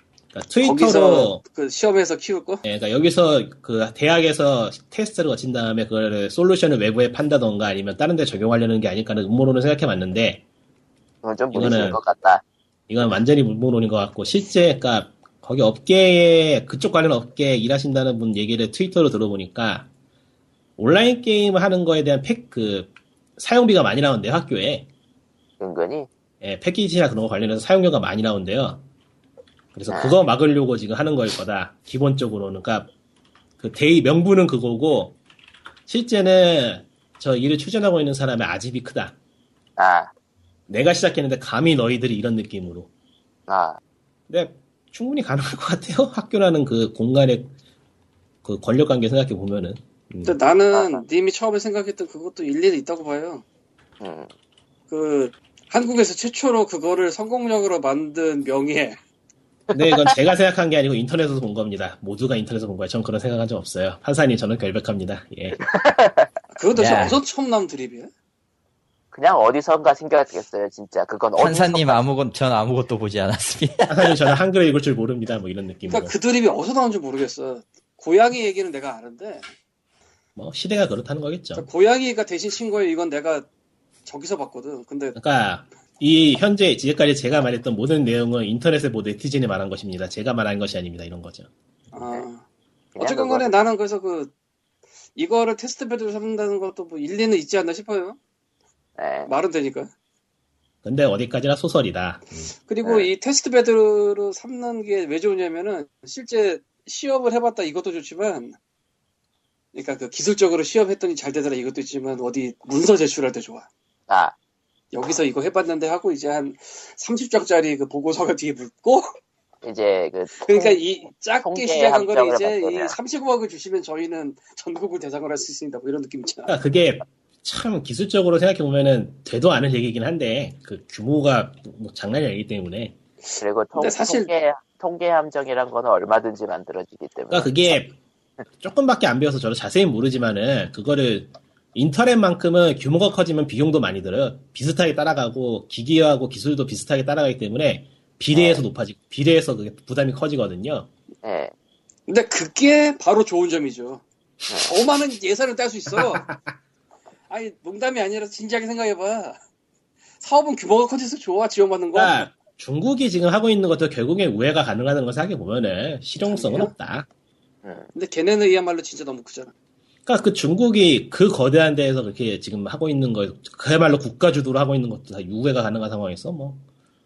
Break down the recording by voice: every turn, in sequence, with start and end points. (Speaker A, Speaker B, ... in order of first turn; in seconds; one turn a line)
Speaker A: 0.3-1.4
Speaker B: 0.6-2.6
Speaker A: 2.6-10.4
Speaker C: 11.2-12.4
Speaker A: 11.5-12.0
Speaker A: 12.9-19.9
Speaker A: 20.8-24.9
Speaker C: 25.6-26.1
Speaker A: 26.4-28.8
Speaker A: 29.7-32.9
Speaker C: 29.9-30.2
Speaker A: 33.6-35.2
Speaker A: 35.9-39.1
Speaker C: 39.8-40.1
Speaker A: 40.7-42.9
Speaker C: 43.5-43.8
Speaker A: 44.3-47.5
Speaker A: 48.4-50.4
Speaker B: 50.2-53.4
Speaker C: 50.7-51.0
Speaker C: 54.0-54.3
Speaker B: 54.9-59.0
Speaker C: 59.7-60.1
Speaker A: 59.7-65.6
Speaker C: 65.6-66.3
Speaker B: 66.5-68.1
Speaker D: 66.8-67.2
Speaker C: 69.1-72.0
Speaker D: 71.4-74.2
Speaker A: 73.9-76.1
Speaker B: 75.9-79.5
Speaker A: 80.4-81.7
Speaker B: 81.6-83.5
Speaker B: 84.0-85.2
Speaker A: 85.2-91.5
Speaker B: 91.9-92.4
Speaker C: 93.0-93.5
Speaker B: 93.0-94.3
Speaker B: 95.2-98.2
Speaker C: 99.0-99.3
Speaker B: 99.3-99.9
Speaker A: 100.8-102.5
Speaker B: 102.7-108.6
Speaker C: 102.8-103.1
Speaker B: 109.7-113.7
Speaker C: 114.1-114.3
Speaker B: 114.9-119.1
Speaker C: 119.6-120.8
Speaker B: 120.4-126.5
Speaker C: 121.4-123.0
Speaker A: 126.5-133.0
Speaker C: 133.4-137.9
Speaker B: 133.8-134.3
Speaker A: 137.3-137.9
Speaker A: 138.6-150.9
Speaker C: 148.3-148.7
Speaker C: 151.2-151.5
Speaker B: 152.1-154.0
Speaker C: 154.5-154.7
Speaker B: 154.7-156.2
Speaker A: 155.9-156.4
Speaker B: 157.3-159.4
Speaker B: 160.2-162.3
Speaker A: 161.9-167.1
Speaker B: 166.2-166.7
Speaker B: 167.9-169.5
Speaker A: 170.1-176.6